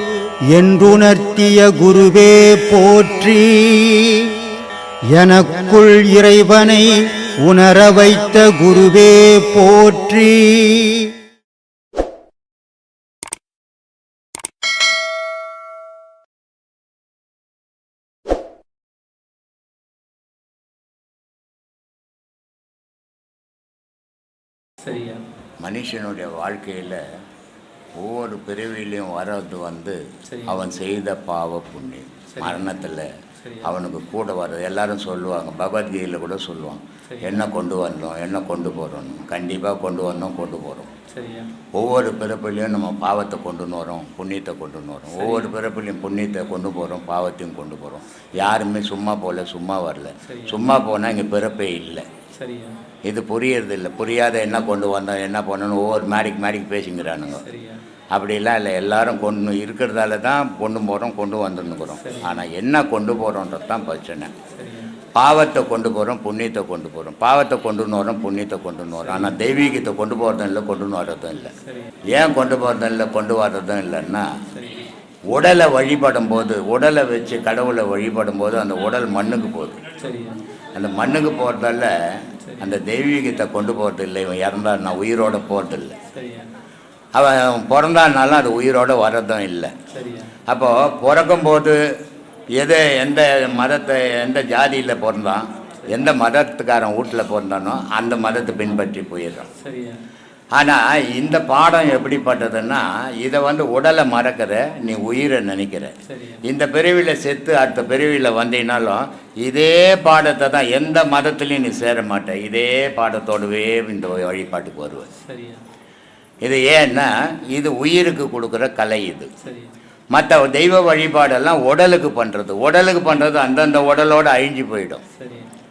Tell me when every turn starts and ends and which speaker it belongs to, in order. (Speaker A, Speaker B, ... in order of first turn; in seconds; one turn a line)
Speaker A: 0.5-4.1
Speaker A: 5.1-11.0
Speaker B: 24.8-25.2
Speaker C: 25.6-27.0
Speaker C: 28.0-33.1
Speaker B: 30.3-30.6
Speaker B: 32.3-32.7
Speaker B: 33.4-33.7
Speaker C: 33.6-40.9
Speaker B: 37.1-37.5
Speaker B: 41.1-41.5
Speaker C: 41.7-52.1
Speaker B: 45.2-45.5
Speaker B: 50.2-50.7
Speaker B: 52.3-52.8
Speaker C: 53.1-57.4
Speaker B: 57.4-57.8
Speaker C: 58.1-64.3
Speaker B: 62.0-62.4
Speaker B: 64.5-65.0
Speaker C: 65.2-71.5
Speaker B: 69.0-69.4
Speaker B: 71.6-71.9
Speaker C: 72.1-74.4
Speaker B: 74.5-74.9
Speaker C: 75.3-79.8
Speaker B: 80.0-80.4
Speaker C: 80.8-86.0
Speaker B: 82.4-82.7
Speaker B: 86.1-86.5
Speaker C: 87.1-89.7
Speaker B: 89.9-90.4
Speaker C: 90.5-91.8
Speaker C: 92.6-99.5
Speaker B: 99.6-100.0
Speaker C: 100.5-115.1
Speaker B: 106.1-106.4
Speaker B: 115.2-115.6
Speaker C: 116.4-119.3
Speaker B: 119.4-119.7
Speaker C: 120.1-125.0
Speaker B: 125.2-125.5